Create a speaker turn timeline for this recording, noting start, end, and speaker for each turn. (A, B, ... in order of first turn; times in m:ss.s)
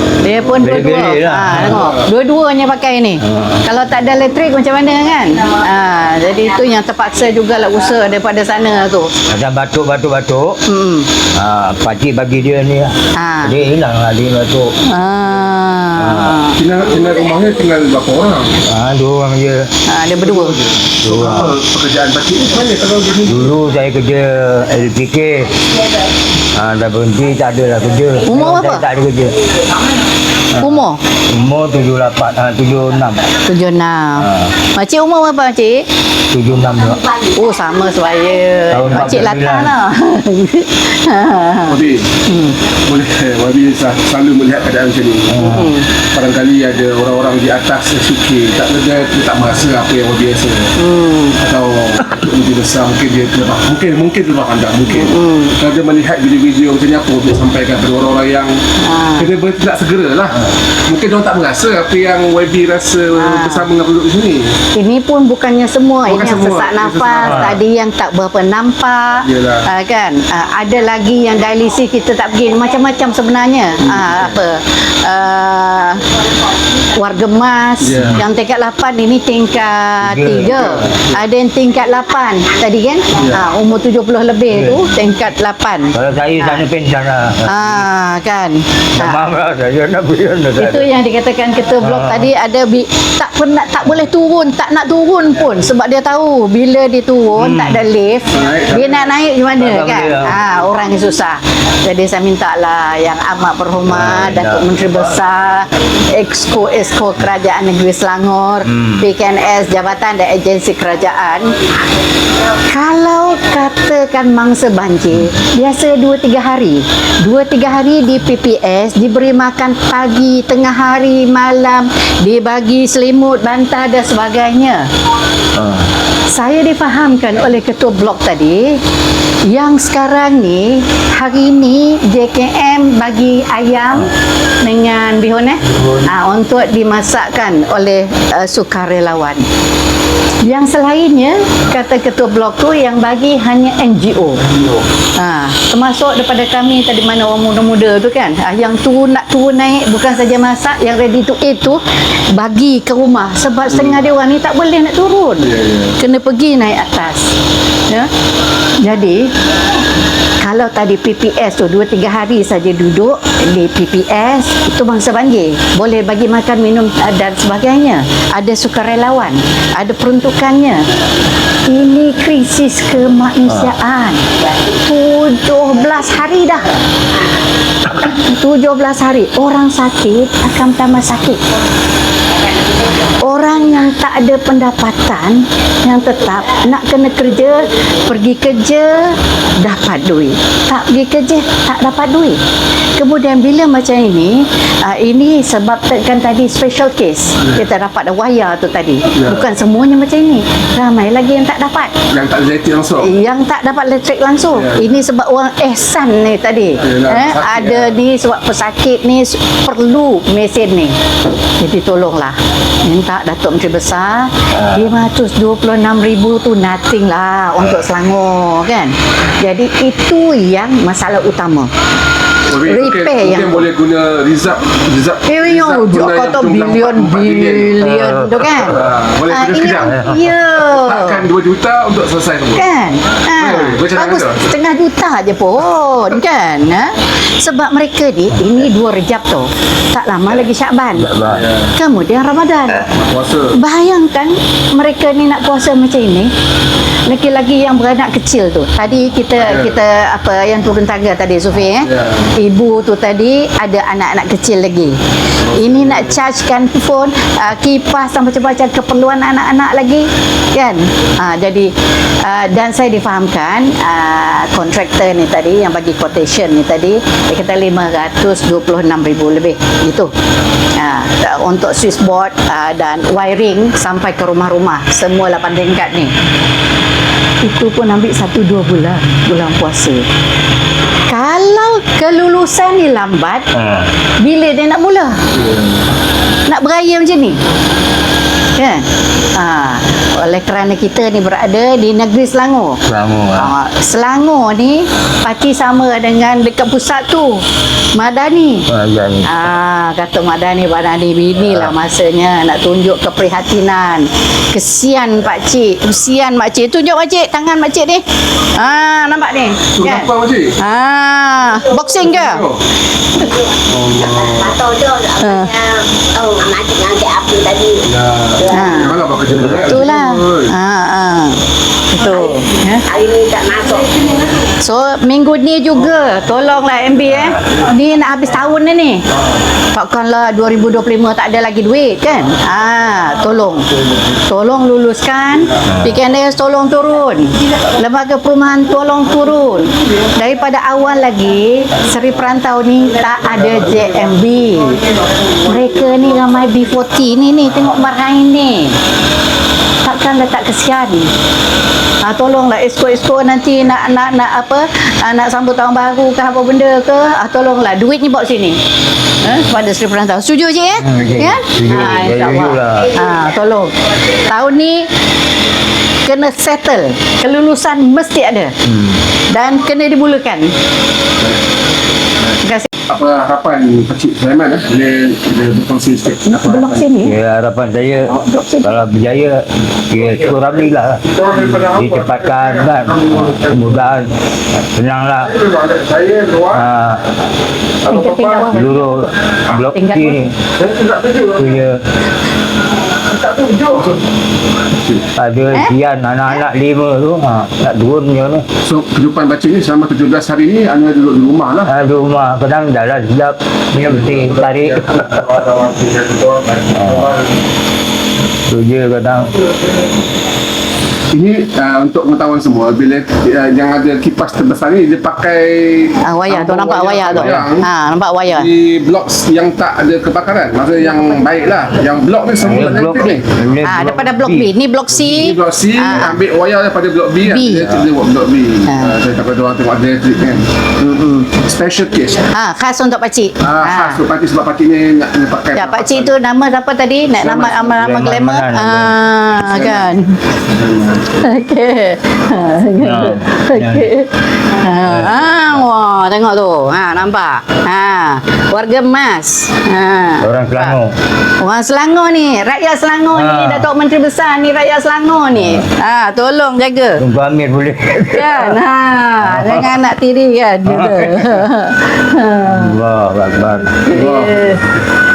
0:00.2-0:09.1 A
0:00.6-0:01.8 B
0:01.6-0:02.1 C
0:03.2-0:03.6 B
0:09.3-0:10.6 B
0:10.6-0:11.1 A
0:11.3-0:14.7 B
0:13.1-0:13.6 A
0:14.9-0:16.6 A
0:16.0-0:16.4 B
0:16.6-0:18.6 C
0:18.7-0:19.7 B
0:19.9-0:20.6 A
0:20.1-0:23.5 C
0:21.0-0:21.6 B
0:23.2-0:25.5 B
0:26.6-0:29.4 B
0:28.2-0:28.9 A
0:30.5-0:33.2 B
0:30.6-0:31.0 A
0:33.4-0:35.8 A
0:34.2-0:34.5 B
0:36.3-0:37.0 B
0:36.6-0:38.4 D
0:37.4-0:42.6 A
0:38.7-0:39.7 B
0:41.6-0:42.1 C
0:42.9-0:45.3 C
0:45.3-0:45.7 B
0:45.4-0:45.8 A
0:46.1-0:50.7 C
0:50.8-0:51.4 A
0:51.4-0:58.5 C
0:54.9-0:55.6 A
0:58.8-0:59.3 A
0:59.2-1:00.4 C
1:00.9-1:04.5 C
1:03.1-1:03.7 A
1:04.8-1:16.0 A
1:06.1-1:07.6 C
1:07.2-1:07.6 B
1:09.2-1:09.7 C
1:16.9-1:26.6 A
1:17.8-1:18.2 C
1:20.0-1:20.8 B
1:24.5-1:24.8 B
1:25.9-1:27.9 B
1:27.4-1:29.2 A
1:29.0-1:30.9 B
1:30.6-1:51.5 A
1:31.8-1:32.3 B
1:37.3-1:37.8 B
1:38.3-1:39.1 C
1:39.6-1:40.4 B
1:43.8-1:44.7 B
1:48.6-1:49.0 B
1:52.7-2:04.8 A
2:05.6-2:05.9 B
2:06.3-2:08.8 A
2:09.5-2:14.1 A
2:14.6-2:19.4 A
2:20.4-2:24.4 A
2:25.2-2:31.8 A
2:32.4-2:37.2 A
2:33.7-2:34.0 C
2:35.4-2:36.0 C
2:38.8-2:39.3 A
2:40.4-2:50.8 A
2:51.7-2:54.2 A
2:53.5-2:53.7 B
2:54.8-2:56.7 A
2:58.0-3:01.4 A
3:02.3-3:03.2 D
3:03.2-3:12.4 A
3:13.0-3:21.9 A
3:19.2-3:19.4 C
3:22.1-3:23.1 C
3:23.0-3:30.9 A
3:24.5-3:24.9 C
3:26.8-3:27.9 C
3:31.6-3:41.7 A
3:34.5-3:35.0 B
3:42.5-3:47.8 C
3:42.6-3:43.6 A
3:45.3-3:48.7 A
3:47.8-3:48.6 B
3:48.6-3:50.0 C
3:49.3-3:51.2 A
3:49.8-3:50.2 B
3:50.6-3:52.7 C
3:52.6-4:01.1 A
3:53.3-3:54.4 C
4:01.0-4:01.4 B
4:01.2-4:01.7 C
4:01.8-4:02.9 A
4:02.9-4:03.6 C
4:03.6-4:06.3 A
4:07.1-4:15.0 A
4:09.4-4:09.8 C
4:11.8-4:12.3 C
4:15.4-4:16.1 C
4:15.6-4:21.7 A
4:22.2-4:30.1 A
4:30.8-4:36.1 A
4:37.4-4:40.0 A
4:41.1-4:43.4 A
4:43.5-4:43.9 B
4:44.2-4:45.2 A
4:45.3-4:45.8 C
4:46.5-4:47.4 A
4:48.6-4:48.8 A
4:49.4-4:52.8 A
4:52.8-4:53.5 B
4:53.3-4:57.4 A
4:57.9-4:58.6 A
4:58.7-4:59.3 B
4:59.2-5:08.0 A
5:01.4-5:01.7 B
5:08.6-5:12.4 A
5:09.8-5:10.5 C
5:11.5-5:12.1 D
5:12.1-5:12.6 C
5:13.2-5:17.9 D
5:13.7-5:14.6 C
5:15.2-5:15.5 A
5:17.8-5:20.5 C
5:18.5-5:18.9 A
5:18.6-5:18.9 D
5:19.7-5:21.4 A
5:21.9-5:22.8 A
5:22.0-5:22.4 D
5:22.9-5:24.1 D
5:24.6-5:29.0 A
5:29.7-5:33.6 A
5:34.3-5:44.8 A
5:35.7-5:36.0 B
5:45.4-5:48.7 A
5:49.8-5:51.1 A
5:52.0-5:58.6 A
5:59.2-6:03.7 A
6:00.8-6:02.9 B
6:04.2-6:04.9 A
6:06.0-6:08.5 A
6:08.7-6:09.0 B
6:09.3-6:10.5 A
6:12.4-6:12.7 A
6:12.9-6:16.9 C
6:16.2-6:17.2 A
6:17.0-6:18.1 B
6:18.1-6:18.8 A
6:18.6-6:24.1 B
6:21.1-6:23.9 E
6:24.7-6:25.3 B
6:25.2-6:26.7 E
6:26.5-6:27.1 B
6:27.8-6:28.5 E
6:27.9-6:30.2 A
6:28.5-6:30.4 B
6:30.6-6:31.3 E
6:31.3-6:31.8 B
6:33.0-6:33.9 A
6:35.2-6:38.4 B
6:38.6-6:41.7 C
6:41.7-6:45.2 B
6:44.1-6:47.3 E
6:46.7-6:47.1 B
6:48.5-6:49.3 B
6:51.1-6:57.7 C
6:56.0-6:58.5 A
6:58.3-7:03.2 C
7:02.4-7:04.5 B
7:02.7-7:06.2 A
7:04.9-7:10.4 C
7:07.2-7:07.7 A
7:08.7-7:08.9 A
7:10.8-7:11.3 A
7:11.3-7:12.3 C
7:12.3-7:14.0 A
7:13.4-7:16.1 C
7:15.6-7:20.1 A
7:17.2-7:17.8 C
7:17.7-7:18.9 B
7:19.5-7:19.9 C
7:20.4-7:21.2 C
7:21.2-7:30.8 A
7:22.8-7:23.9 B
7:24.8-7:25.6 B
7:30.2-7:30.9 B
7:31.4-7:37.0 A
7:33.1-7:33.7 B
7:35.3-7:35.6 B
7:37.0-7:38.6 B
7:38.1-7:42.8 A
7:39.2-7:39.8 B
7:40.7-7:41.4 B
7:42.4-7:43.8 B
7:43.8-7:44.6 A
7:43.9-7:44.4 C